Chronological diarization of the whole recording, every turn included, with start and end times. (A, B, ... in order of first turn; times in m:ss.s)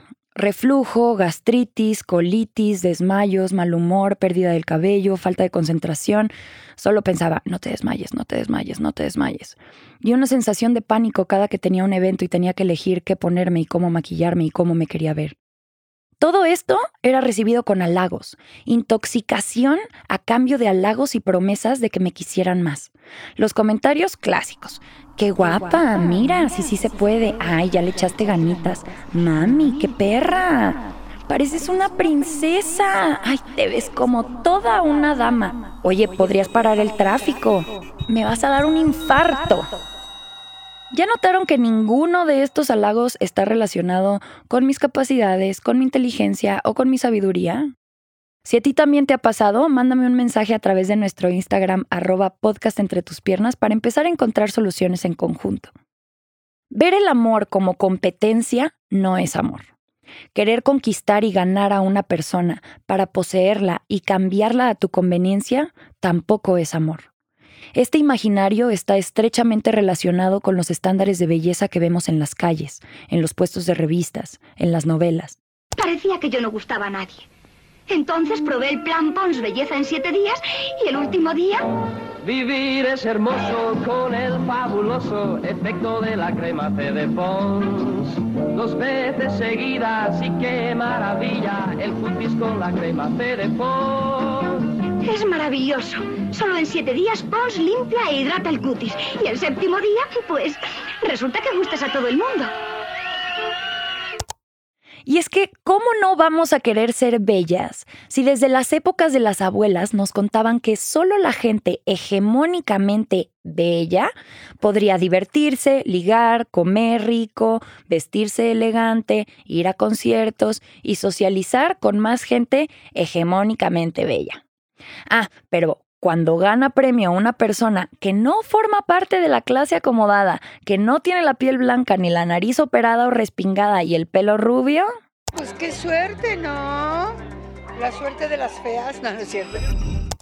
0:00.3-0:15.4 A
0:16.2-0:39.8 A
0:40.9-0:47.7 A
0:48.4-0:55.7 A
0:56.7-0:59.7 A
1:00.3-1:07.1 A
1:07.7-1:15.4 A
1:15.8-1:17.3 B
1:17.9-1:21.6 B
1:22.2-1:34.7 C
1:35.0-1:42.5 B
1:45.0-2:04.4 A
2:05.1-2:14.9 A
2:15.3-2:17.2 D
2:17.8-2:19.6 D